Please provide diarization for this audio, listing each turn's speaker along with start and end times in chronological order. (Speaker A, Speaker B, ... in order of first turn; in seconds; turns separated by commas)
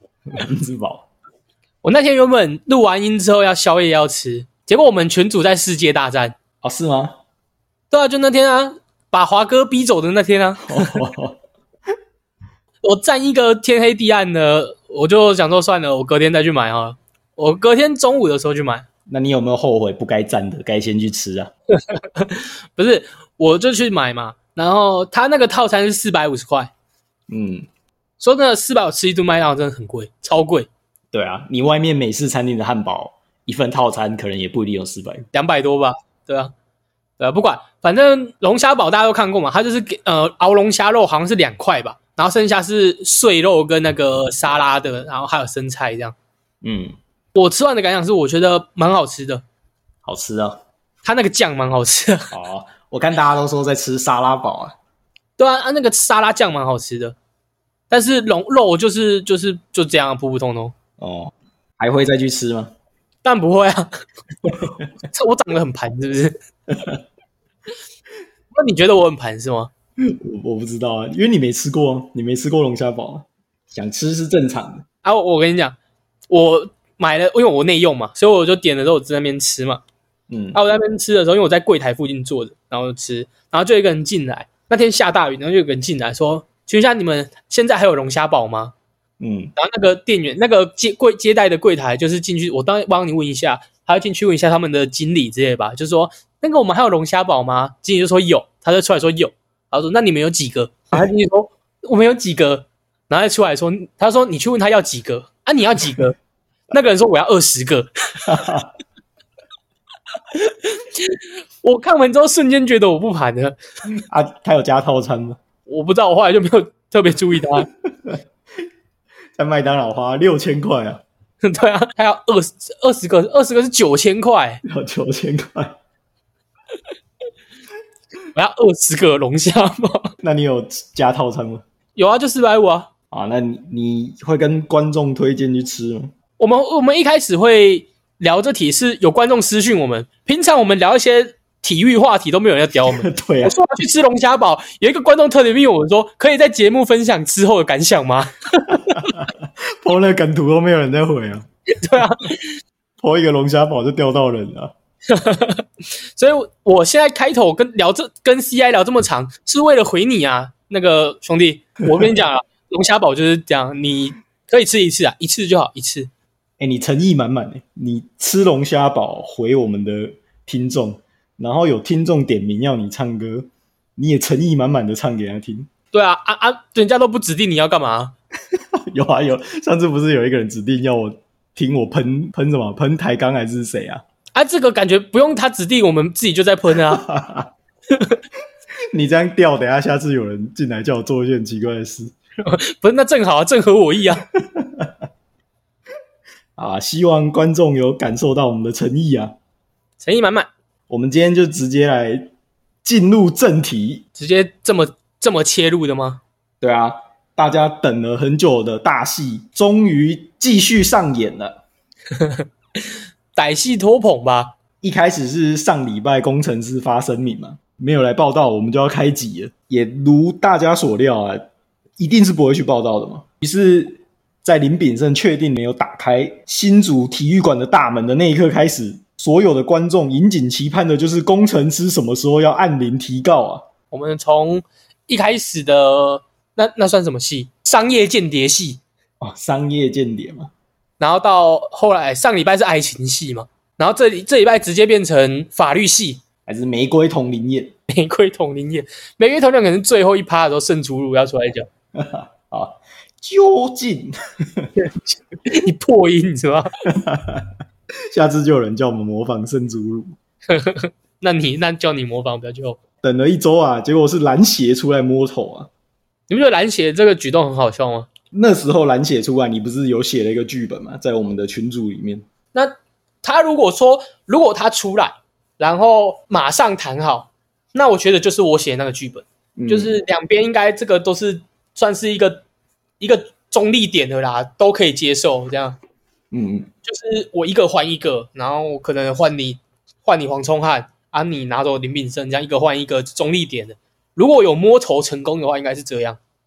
Speaker A: 0.3-1.1, Speaker B: 1.8-6.3, Speaker A: 6.6-7.2, Speaker B: 7.9-11.0, Speaker A: 10.6-11.4, Speaker B: 12.8-18.9, Speaker A: 19.1-21.5, Speaker B: 21.7-26.7, Speaker A: 27.3-27.7, Speaker B: 28.2-30.7, Speaker A: 31.1-35.2, Speaker B: 35.3-36.5, Speaker B: 37.2-46.1, Speaker A: 46.6-47.0, Speaker B: 47.3-49.4, Speaker A: 50.0-50.6, Speaker B: 51.0-52.3, Speaker A: 52.3-54.7, Speaker B: 55.4-57.1, Speaker B: 57.9-60.7, Speaker A: 61.0-62.7, Speaker B: 63.2-63.9, Speaker A: 64.5-64.9, Speaker B: 65.0-66.3, Speaker A: 66.7-67.0, Speaker B: 68.5-69.7, Speaker A: 70.0-74.8, Speaker B: 75.0-75.8, Speaker B: 76.3-79.8, Speaker A: 80.3-80.6, Speaker B: 80.5-88.7, Speaker A: 89.2-89.5, Speaker B: 89.5-106.2, Speaker B: 106.7-108.3, Speaker A: 108.2-108.7, Speaker B: 110.3-113.6, Speaker A: 114.1-115.4, Speaker B: 115.7-117.7, Speaker A: 117.6-118.2, Speaker A: 119.4-121.0, Speaker B: 121.4-124.6, Speaker A: 124.6-125.8, Speaker B: 128.3-130.1, Speaker A: 130.2-131.6, Speaker B: 131.9-132.9, Speaker A: 133.1-136.1, Speaker B: 136.4-149.1, Speaker A: 142.9-143.5, Speaker A: 148.7-151.4, Speaker B: 151.7-152.6, Speaker A: 153.0-154.7, Speaker B: 155.1-166.1, Speaker A: 166.6-175.7, Speaker B: 175.9-178.1, Speaker A: 178.9-184.0, Speaker B: 184.3-187.0, Speaker A: 186.9-187.5, Speaker B: 187.9-188.2, Speaker A: 188.9-192.1, Speaker B: 192.4-194.2, Speaker A: 194.4-194.9, Speaker A: 196.6-199.3, Speaker B: 200.0-200.5, Speaker A: 200.9-202.3, Speaker A: 202.8-204.0, Speaker B: 204.2-206.2, Speaker A: 206.6-211.6, Speaker B: 212.1-212.8, Speaker B: 213.3-214.5, Speaker A: 214.8-221.5, Speaker A: 222.0-233.6, Speaker B: 233.9-238.8, Speaker A: 239.2-240.5, Speaker B: 241.0-246.2, Speaker A: 246.4-247.8, Speaker B: 247.9-251.7, Speaker A: 251.9-254.7, Speaker B: 254.8-256.7, Speaker A: 256.9-257.5, Speaker A: 258.1-260.1, Speaker B: 260.5-262.8, Speaker A: 263.0-265.7, Speaker B: 266.3-268.1, Speaker A: 268.3-272.2, Speaker B: 272.5-282.4, Speaker A: 279.6-280.0, Speaker B: 283.0-285.8, Speaker A: 286.3-286.7, Speaker B: 286.8-296.2